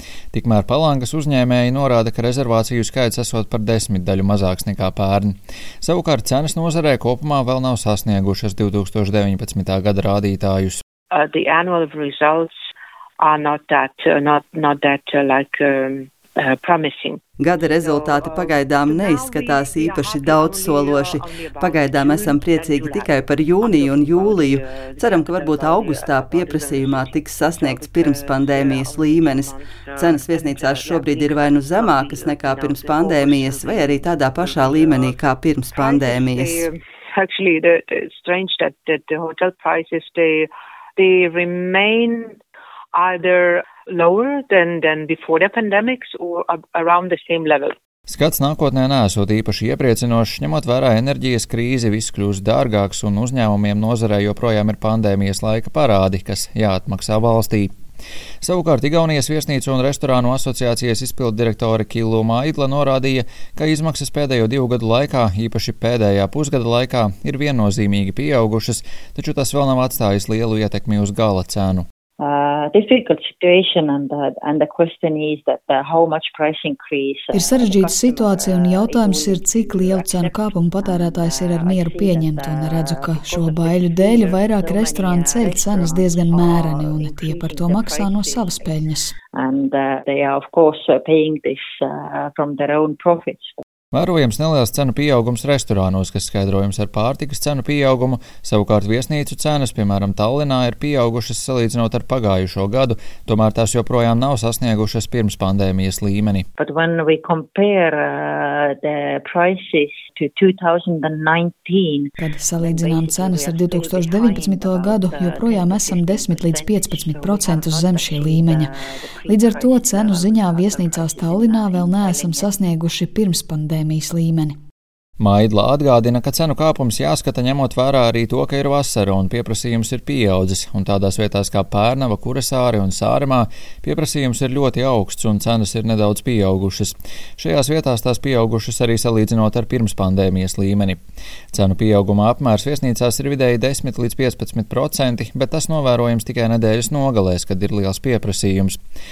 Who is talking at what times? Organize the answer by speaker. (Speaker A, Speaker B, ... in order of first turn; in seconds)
Speaker A: 0.3-10.8, 48.1-57.7, 58.4-71.8, 93.9-106.5, 125.2-141.0, 141.5-148.8
Speaker B: 11.1-12.5, 13.2-35.2, 35.8-42.4, 43.0-47.7
Speaker C: 17.4-36.7
Speaker D: 72.2-93.6, 106.6-122.5
Speaker E: 77.3-89.1, 112.2-118.7, 119.3-124.6